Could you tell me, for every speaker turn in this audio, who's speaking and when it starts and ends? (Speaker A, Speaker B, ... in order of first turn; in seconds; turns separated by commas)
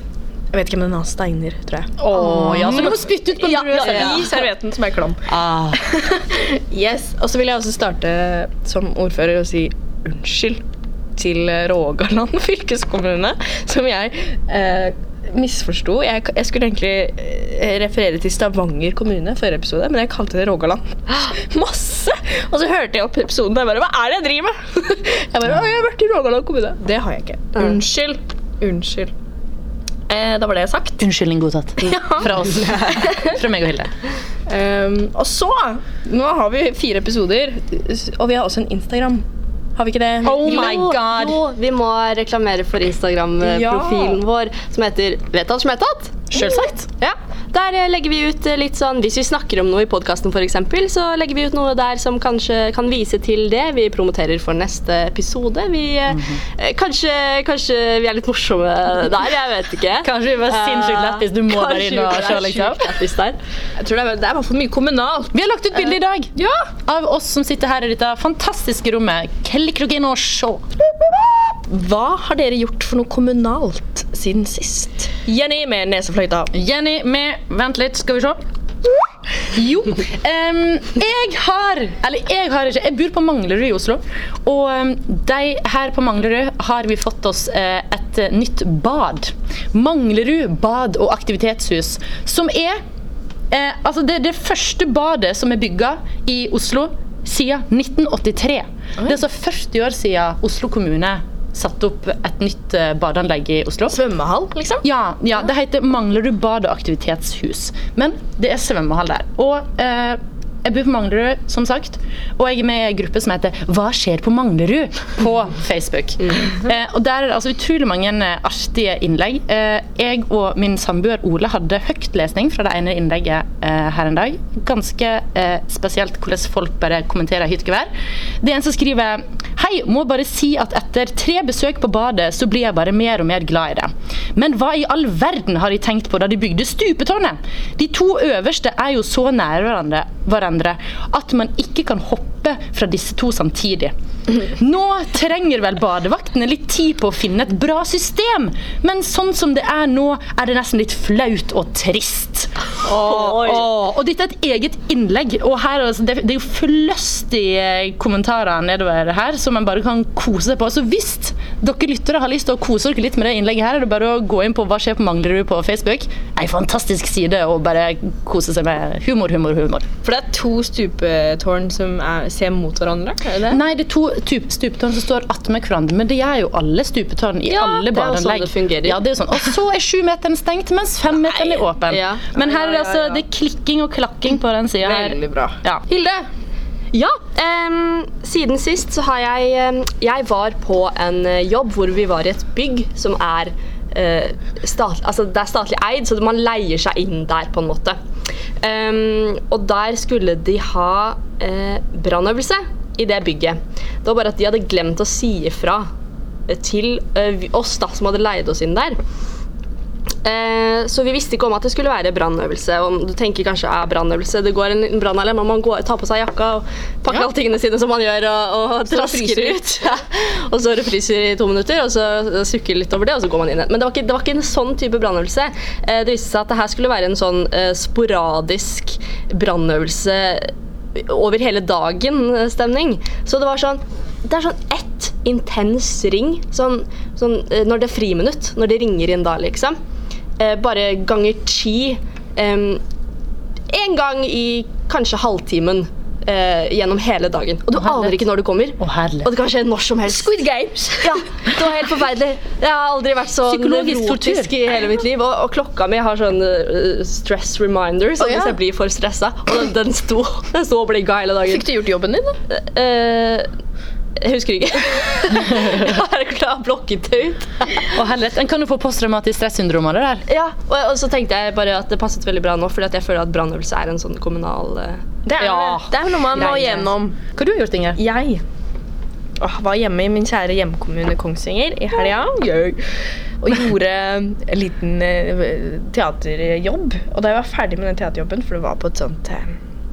Speaker A: 0.5-10.6, Speaker B: 2.0-4.5, Speaker C: 2.2-4.4, Speaker B: 5.3-5.7, Speaker A: 11.2-29.1, Speaker A: 30.1-31.0, Speaker B: 31.0-33.9, Speaker A: 31.8-33.4, Speaker A: 34.5-39.2, Speaker A: 39.8-40.6, Speaker B: 40.2-41.4, Speaker C: 40.4-46.3, Speaker A: 43.4-44.2, Speaker B: 46.3-46.9, Speaker A: 46.3-46.7, Speaker C: 47.0-63.4, Speaker B: 56.1-56.4, Speaker B: 60.0-62.9, Speaker A: 63.8-65.3, Speaker B: 65.3-70.6, Speaker A: 66.4-66.7, Speaker A: 71.7-76.5, Speaker B: 76.5-78.4, Speaker B: 79.5-92.8, Speaker B: 93.5-104.0, Speaker A: 103.9-104.9, Speaker B: 104.8-127.9, Speaker B: 128.4-169.9, Speaker C: 152.8-153.7, Speaker A: 170.0-173.6, Speaker B: 173.5-185.8, Speaker C: 177.5-179.0, Speaker A: 181.3-181.7, Speaker C: 181.9-182.3, Speaker A: 182.4-183.2, Speaker A: 184.8-186.2, Speaker C: 186.9-198.0, Speaker C: 198.6-205.9, Speaker C: 206.5-209.0, Speaker C: 210.2-239.8, Speaker A: 218.9-219.6, Speaker C: 240.4-242.8, Speaker C: 243.7-250.3, Speaker B: 247.8-248.3, Speaker B: 248.8-249.3, Speaker A: 250.1-251.2, Speaker C: 251.0-261.6, Speaker B: 253.5-254.5, Speaker A: 258.2-258.6, Speaker A: 261.5-262.4, Speaker C: 262.5-263.5, Speaker C: 264.2-267.7, Speaker B: 267.9-270.2, Speaker C: 270.3-275.1, Speaker A: 275.2-277.2, Speaker B: 275.4-276.6, Speaker C: 276.3-276.9, Speaker B: 277.3-278.0, Speaker A: 278.0-278.4, Speaker A: 279.4-282.8, Speaker A: 283.4-289.6